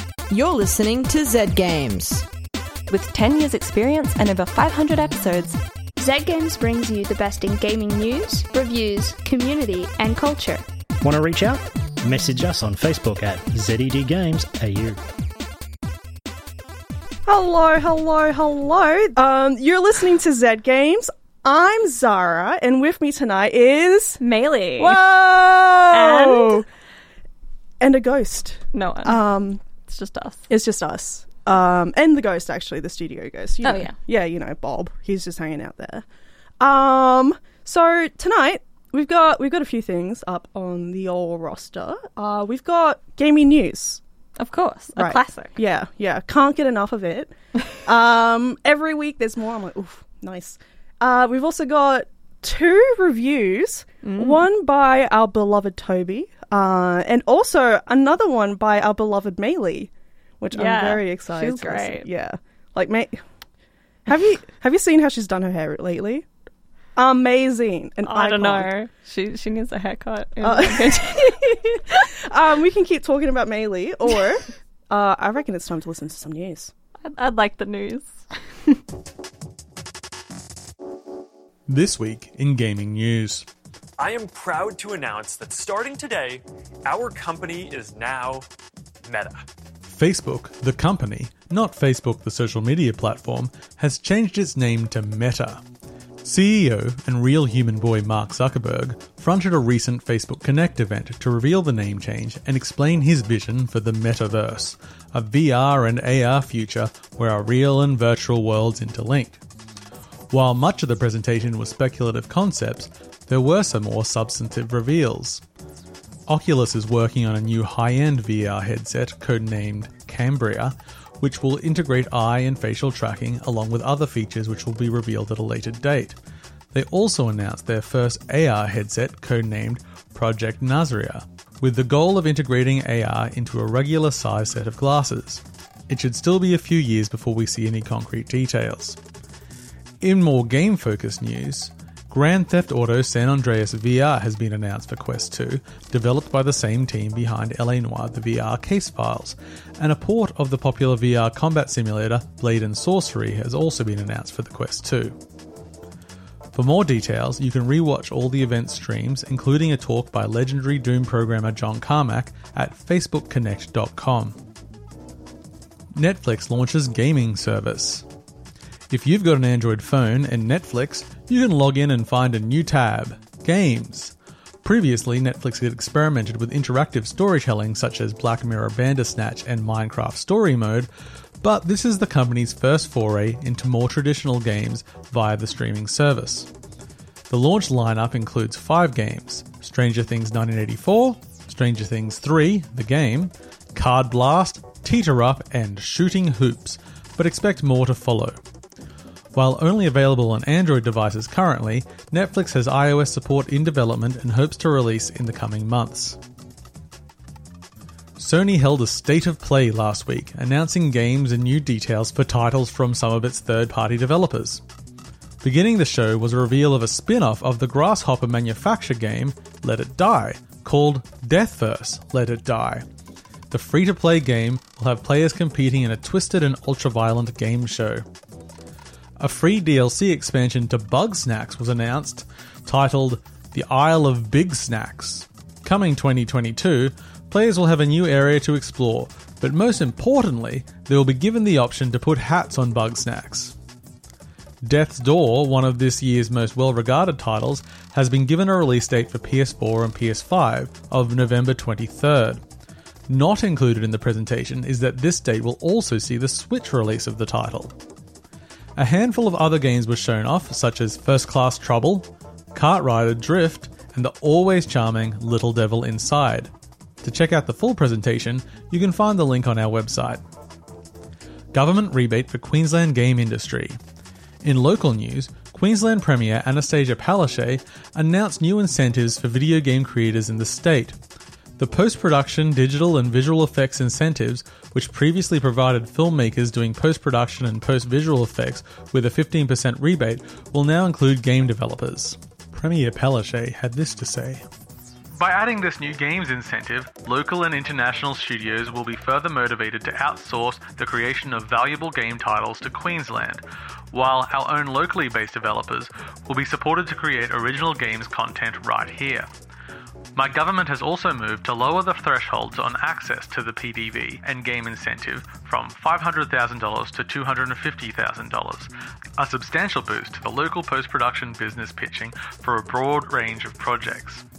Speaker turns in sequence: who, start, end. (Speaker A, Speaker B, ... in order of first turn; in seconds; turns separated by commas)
Speaker A: 0.3-2.2, Speaker B: 2.9-5.6, Speaker C: 6.0-10.7, Speaker D: 11.0-15.0, Speaker E: 17.2-24.2, Speaker B: 24.2-25.0, Speaker E: 24.8-26.7, Speaker B: 25.9-26.6, Speaker E: 27.8-29.6, Speaker B: 28.7-29.2, Speaker B: 29.8-30.5, Speaker E: 30.5-36.0, Speaker B: 33.6-34.0, Speaker E: 36.6-44.0, Speaker B: 44.4-45.6, Speaker E: 44.9-63.2, Speaker B: 54.0-54.5, Speaker B: 60.5-62.1, Speaker E: 64.1-66.3, Speaker E: 67.0-68.7, Speaker B: 68.0-72.1, Speaker E: 70.4-76.7, Speaker B: 77.0-78.8, Speaker F: 81.7-83.5, Speaker G: 84.0-88.5, Speaker G: 89.1-89.4, Speaker F: 89.8-95.6, Speaker F: 96.2-109.4, Speaker F: 110.3-115.4, Speaker F: 116.3-126.2, Speaker F: 126.7-139.0, Speaker F: 140.0-155.2, Speaker F: 156.5-164.4, Speaker F: 165.9-168.1, Speaker F: 168.9-180.9, Speaker F: 181.4-186.5, Speaker F: 187.3-198.4, Speaker F: 199.3-206.2, Speaker F: 208.2-214.6, Speaker F: 215.4-222.8, Speaker F: 223.5-228.0, Speaker F: 229.2-243.6, Speaker F: 244.6-252.4, Speaker F: 253.1-257.8, Speaker F: 258.8-266.5, Speaker F: 267.0-270.2, Speaker F: 271.5-273.8, Speaker F: 274.4-281.0, Speaker F: 281.6-294.4, Speaker F: 295.1-309.3, Speaker F: 310.1-324.2